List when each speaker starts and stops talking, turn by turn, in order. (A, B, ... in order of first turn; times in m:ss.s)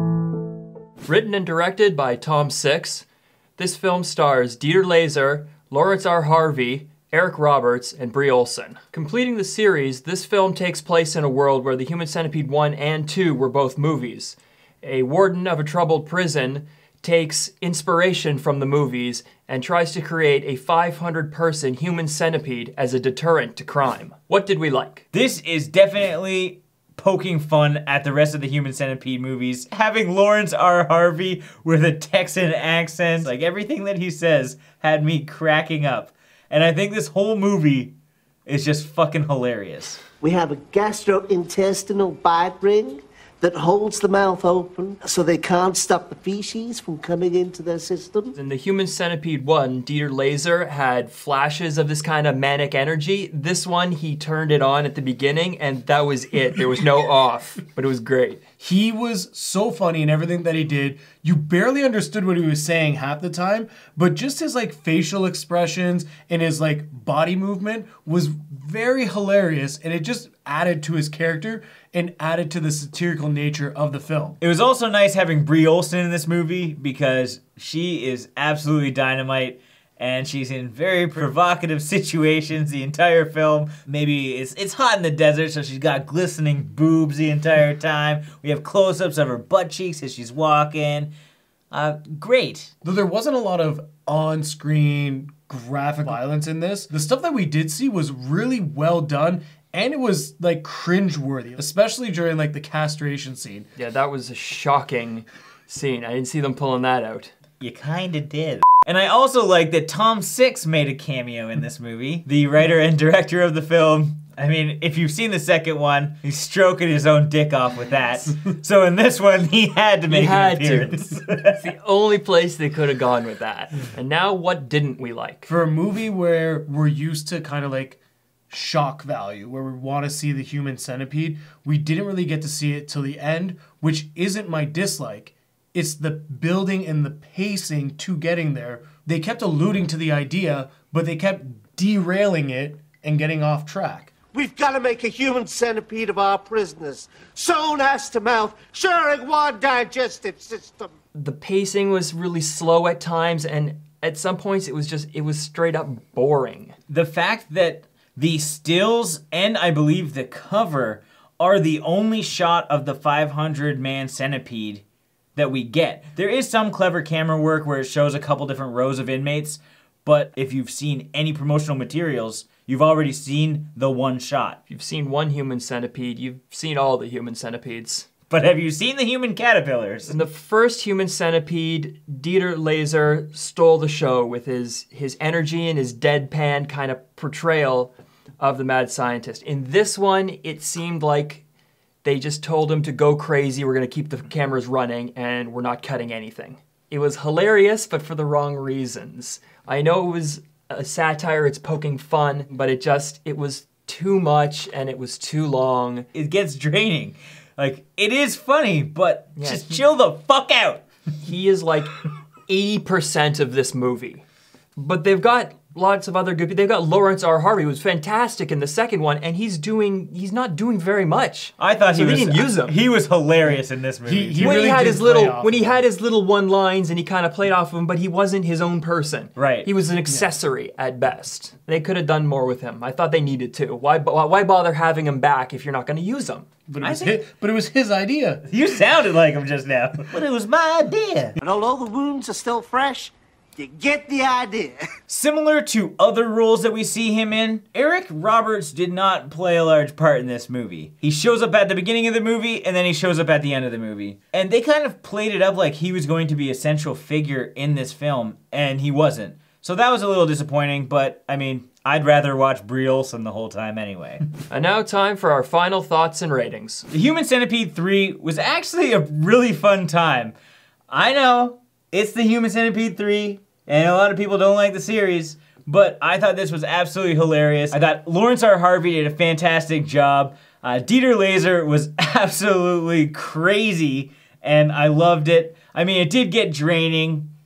0:01.0-0:03.0 A
0:03.6-0:25.0 A
0:25.1-0:37.9 B
0:38.4-0:40.0 B
0:40.2-0:48.3 C
0:48.3-0:58.4 A
0:58.6-1:14.4 D
1:14.4-1:31.1 B
1:31.7-1:32.7 B
1:32.8-1:43.6 D
1:43.8-1:47.3 A
1:47.6-2:01.6 B
2:00.1-2:05.5 A
2:05.5-2:24.1 D
2:24.3-2:30.9 C
2:31.1-2:36.7 A
2:36.9-2:44.8 B
2:45.4-2:54.6 B
2:54.7-2:58.1 A
2:58.3-3:00.2 B
3:00.1-3:11.4 A
3:12.0-3:26.1 A
3:26.1-3:30.8 B
3:29.4-3:29.8 A
3:31.2-3:31.9 A
3:32.5-3:34.2 A
3:34.8-3:42.8 A
3:41.6-3:44.9 B
3:44.0-3:45.8 D
3:44.4-3:56.5 A
3:49.4-3:49.7 B
3:56.7-3:58.4 D
3:56.8-3:57.2 B
3:58.4-4:01.4 B
4:01.4-4:04.9 C
4:05.1-4:24.2 B
4:24.5-4:26.9 A
4:26.9-4:30.3 B
4:30.9-4:47.3 B